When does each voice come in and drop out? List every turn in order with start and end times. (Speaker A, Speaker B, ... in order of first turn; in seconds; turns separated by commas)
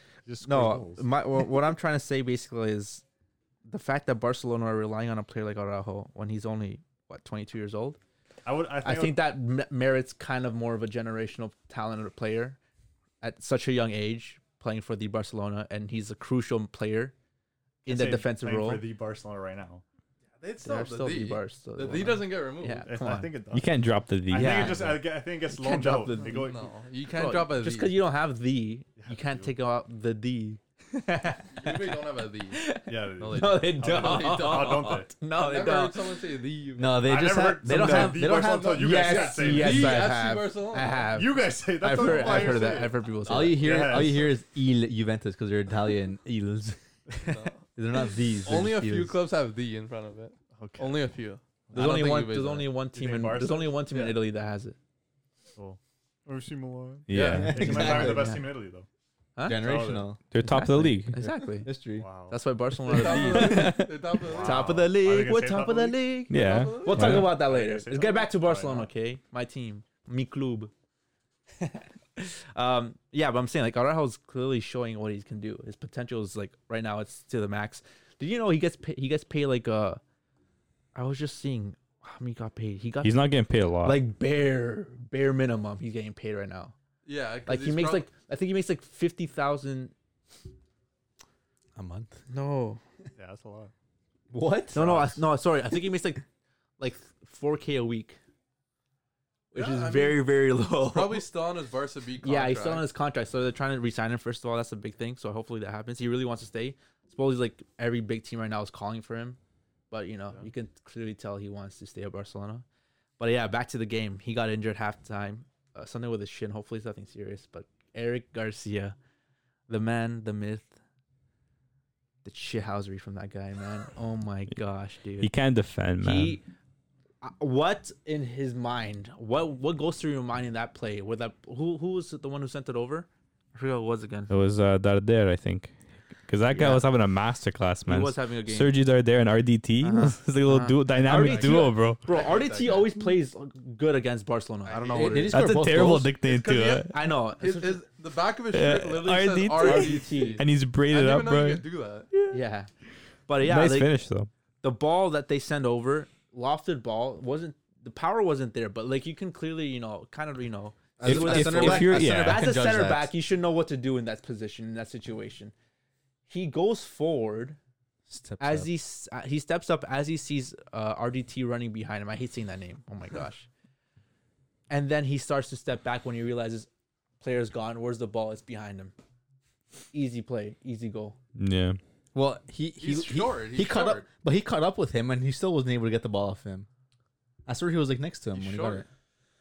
Speaker A: 0.3-1.0, Speaker B: 0.5-3.0, Speaker B: 3.7-8.0, Speaker A: 8.5-9.2, Speaker B: 8.8-12.6, Speaker B: 13.2-17.1, Speaker B: 17.9-18.8, Speaker A: 17.9-19.8, Speaker C: 20.4-22.9, Speaker B: 20.6-23.3, Speaker A: 22.8-23.7, Speaker D: 23.5-24.9, Speaker A: 24.3-26.8, Speaker B: 24.3-26.5, Speaker C: 26.2-28.0, Speaker B: 27.1-36.0, Speaker A: 29.0-29.5, Speaker C: 31.5-37.1, Speaker A: 32.9-35.1, Speaker E: 36.8-39.4, Speaker A: 37.0-40.1, Speaker B: 37.6-38.3, Speaker C: 38.3-41.1, Speaker B: 39.0-44.0, Speaker A: 41.1-44.3, Speaker C: 42.0-42.9, Speaker E: 43.2-49.2, Speaker C: 47.3-47.6, Speaker C: 48.4-52.7, Speaker A: 50.6-51.1, Speaker B: 51.7-54.8, Speaker A: 52.9-53.9, Speaker C: 53.9-54.2, Speaker A: 55.6-58.9, Speaker D: 57.1-57.9, Speaker C: 57.1-57.5, Speaker E: 57.3-58.4, Speaker B: 57.7-58.4, Speaker B: 59.4-59.7, Speaker E: 59.4-60.2, Speaker A: 59.5-60.1, Speaker D: 60.3-61.2, Speaker B: 60.4-61.7, Speaker E: 61.2-62.0, Speaker A: 62.0-62.4, Speaker B: 62.2-70.7, Speaker C: 62.9-64.8, Speaker D: 63.2-63.9, Speaker A: 64.2-66.0, Speaker D: 66.3-67.3, Speaker C: 66.3-67.2, Speaker A: 67.0-68.9, Speaker B: 71.6-80.0, Speaker B: 80.9-83.2, Speaker D: 83.0-84.0, Speaker B: 83.8-86.7, Speaker C: 87.0-88.1, Speaker B: 87.5-89.9, Speaker E: 91.8-92.2, Speaker B: 92.3-92.8, Speaker A: 93.2-93.7, Speaker E: 94.3-95.1, Speaker B: 94.7-96.2, Speaker B: 96.8-98.2, Speaker B: 99.5-101.2, Speaker C: 99.5-102.9, Speaker B: 102.2-109.4, Speaker B: 109.9-112.7, Speaker B: 113.2-119.0, Speaker B: 119.7-120.8, Speaker B: 122.2-125.3, Speaker D: 125.2-126.4, Speaker B: 126.0-126.4, Speaker B: 127.2-134.3, Speaker D: 134.3-142.1, Speaker B: 136.5-136.9, Speaker B: 137.8-138.8, Speaker B: 139.8-147.8, Speaker C: 141.2-142.9, Speaker A: 144.7-145.3, Speaker E: 144.9-146.2, Speaker D: 145.3-147.1, Speaker C: 147.4-152.1, Speaker D: 148.5-152.4, Speaker B: 149.4-150.4, Speaker B: 152.3-152.7, Speaker B: 153.3-153.9, Speaker D: 153.4-154.3, Speaker B: 154.6-165.5, Speaker E: 161.0-163.1, Speaker D: 161.1-162.5, Speaker B: 166.3-167.6, Speaker E: 168.1-168.7, Speaker B: 168.4-173.5, Speaker B: 174.7-176.7, Speaker B: 177.2-178.9, Speaker B: 179.9-181.2, Speaker D: 181.3-181.8, Speaker E: 182.1-186.7, Speaker C: 182.8-184.1, Speaker E: 187.5-188.9, Speaker C: 188.3-188.8